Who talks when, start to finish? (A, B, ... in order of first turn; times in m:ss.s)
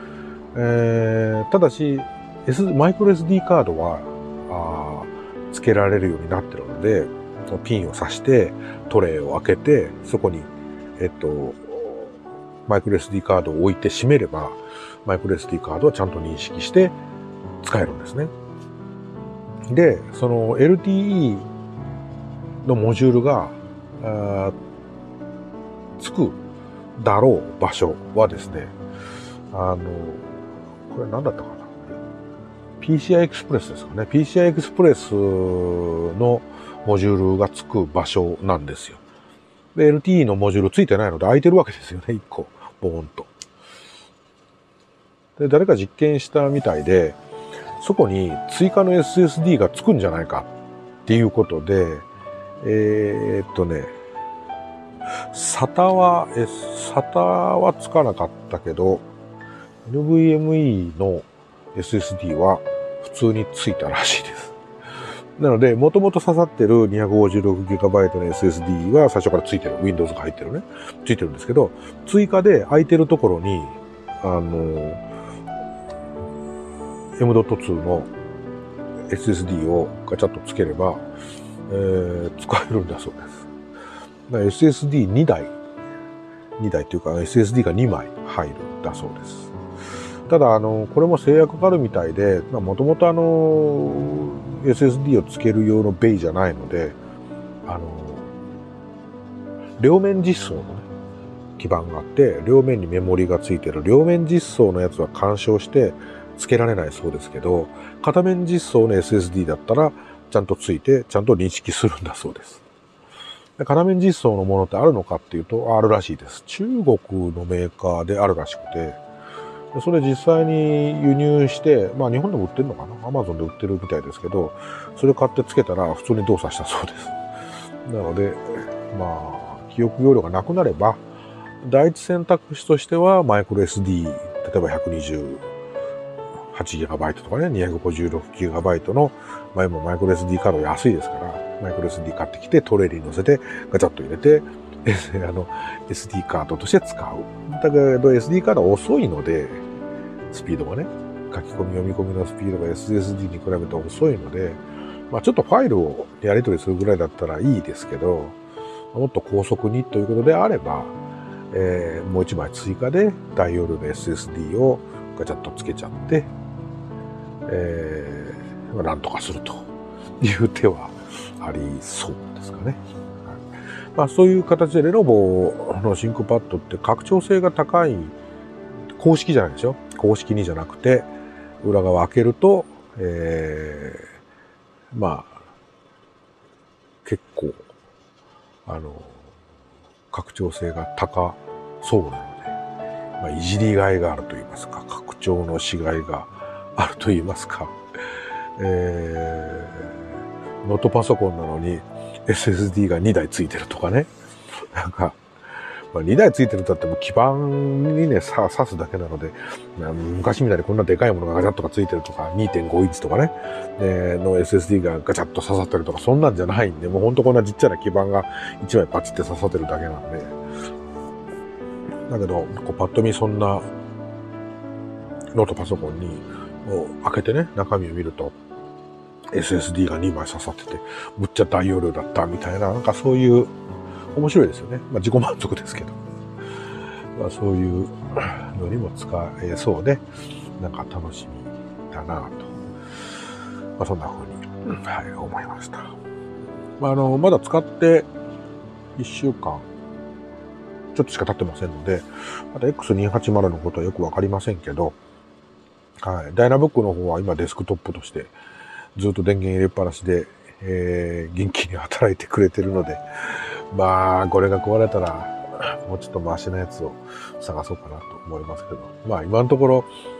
0:00.5-0:16.9 A
0:17.6-0:18.3 A
0:19.7-0:21.5 A
0:22.6-0:24.5 A
0:26.0-0:26.4 A
0:27.0-0:28.7 A
0:29.5-0:32.0 A
0:32.8-0:39.0 A
0:39.7-0:43.3 A
0:45.4-0:47.2 A
0:47.8-0:50.5 A
0:51.0-0:52.0 A
0:52.6-0:53.9 A
0:55.2-0:59.0 A
0:59.8-1:04.6 A
1:05.4-1:15.0 A
1:17.2-1:18.1 A
1:19.1-1:21.1 A
1:21.7-1:23.5 A
1:24.3-1:25.5 A
1:26.6-1:29.5 A
1:30.3-1:37.0 A
1:37.6-1:38.3 A
1:39.8-1:40.9 A
1:41.6-1:52.6 A
1:53.6-1:59.0 A
1:59.7-2:07.2 A
2:07.8-2:11.0 A
2:11.6-2:15.4 A
2:16.5-2:29.6 A
2:30.3-2:38.4 A
2:38.9-2:40.9 A
2:41.5-2:46.3 A
2:47.4-2:53.4 A
2:54.0-2:58.1 A
2:59.0-3:01.1 A
3:01.6-3:04.1 A
3:04.9-3:05.4 A
3:07.0-3:07.7 A
3:08.6-3:09.2 A
3:10.1-3:12.6 A
3:13.2-3:17.8 A
3:18.6-3:20.0 A
3:20.6-3:25.2 A
3:25.9-3:40.3 A
3:42.1-3:43.7 A
3:45.3-3:48.3 A
3:49.3-3:53.5 A
3:54.1-3:56.0 A
3:57.2-4:00.0 A
4:00.6-4:02.6 A
4:03.8-4:06.0 A
4:06.8-4:08.1 A
4:09.0-4:09.7 A
4:10.9-4:14.9 A
4:16.0-4:18.3 A
4:19.0-4:29.9 A